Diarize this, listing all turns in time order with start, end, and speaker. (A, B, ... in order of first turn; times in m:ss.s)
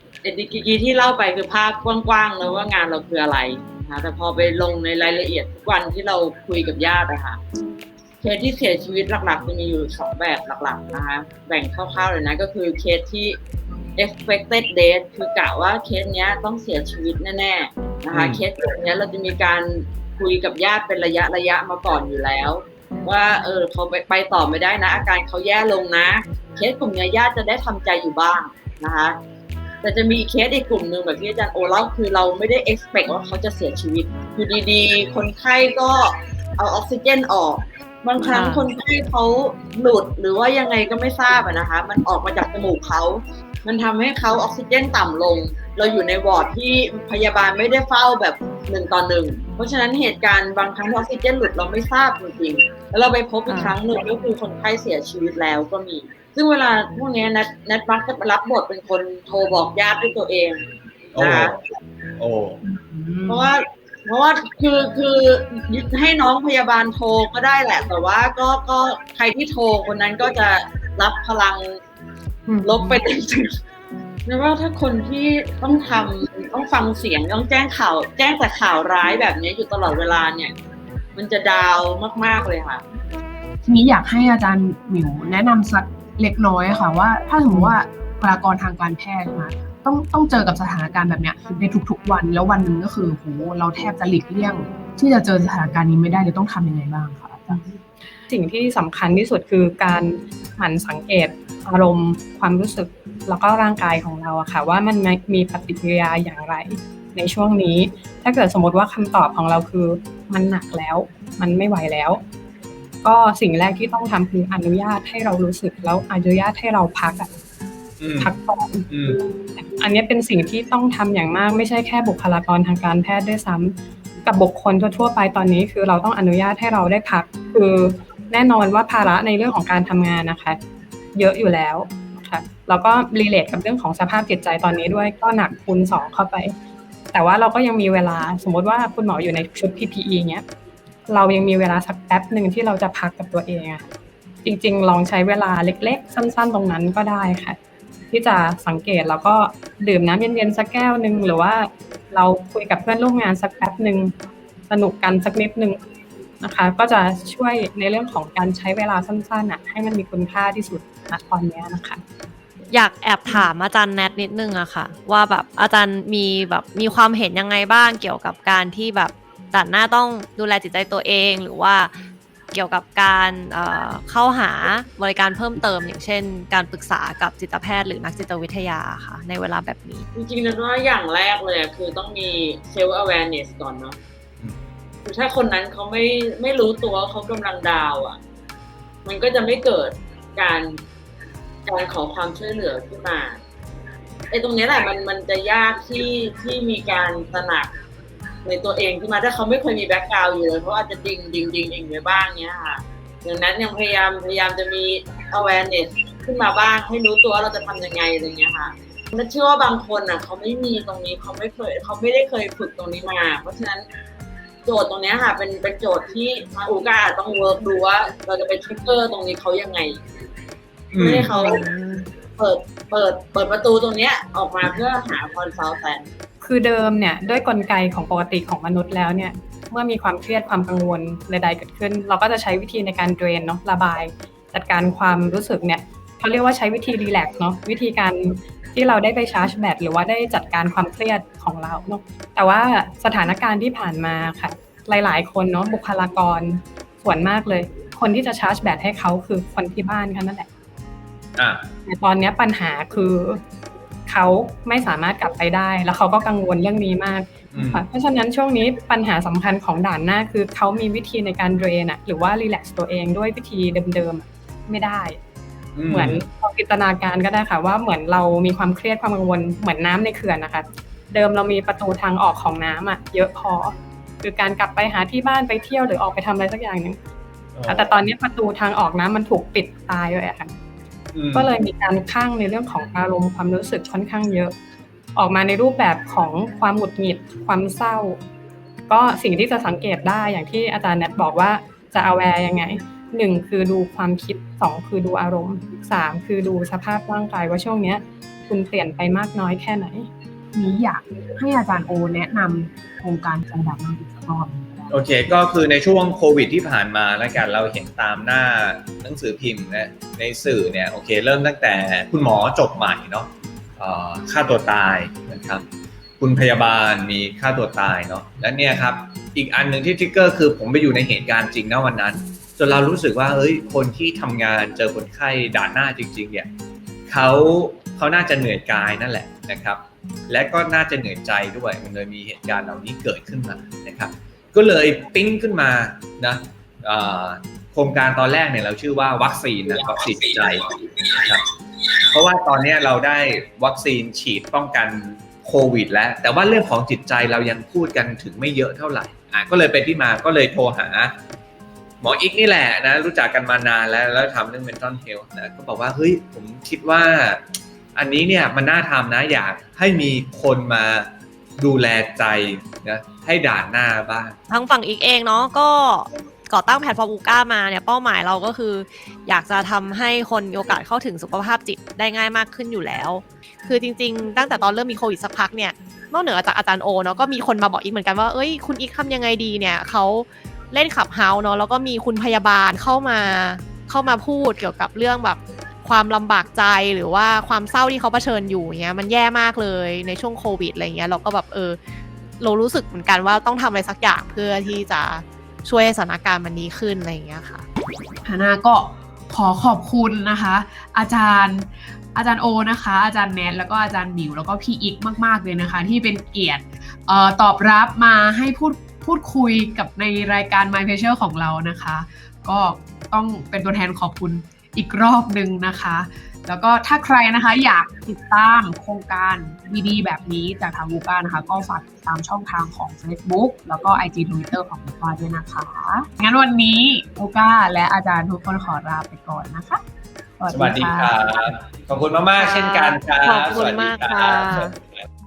0:00.2-0:07.4 A
0:08.2-0:13.4 A
0:14.0-0:29.2 A
0:18.1-0:18.4 B
0:29.8-1:01.6 A
0:38.2-0:38.6 C
0:53.5-0:53.8 C
1:01.1-1:01.5 B
1:02.2-1:02.6 B
1:02.6-1:03.5 D
1:03.3-1:11.8 A
1:12.5-1:13.0 E
1:12.6-1:13.6 A
1:14.2-1:20.5 A
1:21.1-1:22.8 A
1:23.6-1:37.6 D
1:38.3-1:52.2 E
1:53.0-1:57.3 E
1:58.0-1:58.3 B
1:58.2-2:10.6 E
1:58.9-1:59.2 B
2:11.1-2:16.5 E
2:17.1-2:20.4 E
2:21.1-2:23.8 E
2:24.4-2:27.6 E
2:28.1-2:34.1 E
2:34.7-2:35.8 E
2:36.4-2:42.0 E
2:42.7-2:51.9 C
2:52.5-3:00.1 C
3:00.1-3:04.0 A
3:05.0-3:08.2 A
3:09.0-3:10.8 A
3:11.6-3:13.4 A
3:14.3-3:17.7 A
3:18.4-3:33.8 A
3:34.6-3:40.0 A
3:40.9-3:41.4 B
3:41.0-3:41.6 A
3:41.3-3:42.1 C
3:42.4-3:46.1 A
3:46.4-4:10.5 E
4:11.4-4:11.6 B
4:11.8-4:13.4 E
4:14.1-4:25.2 E
4:17.5-4:17.8 B
4:25.8-4:26.2 B
4:25.9-4:37.0 E
4:37.6-4:38.0 B
4:37.7-4:40.5 E
4:41.1-4:41.5 B
4:41.3-4:44.5 E
4:45.2-4:48.2 E
4:48.9-5:00.1 E
5:00.5-5:04.9 D
5:04.9-5:15.6 B
5:16.2-5:26.5 B
5:27.1-5:41.4 B
5:42.1-5:51.1 B
5:52.0-5:57.4 B
5:58.0-6:04.4 B
6:04.5-6:31.8 C
6:32.4-6:37.6 C
6:38.2-7:09.8 D
7:10.4-7:11.5 D
7:10.5-7:15.1 B
7:12.3-7:14.7 C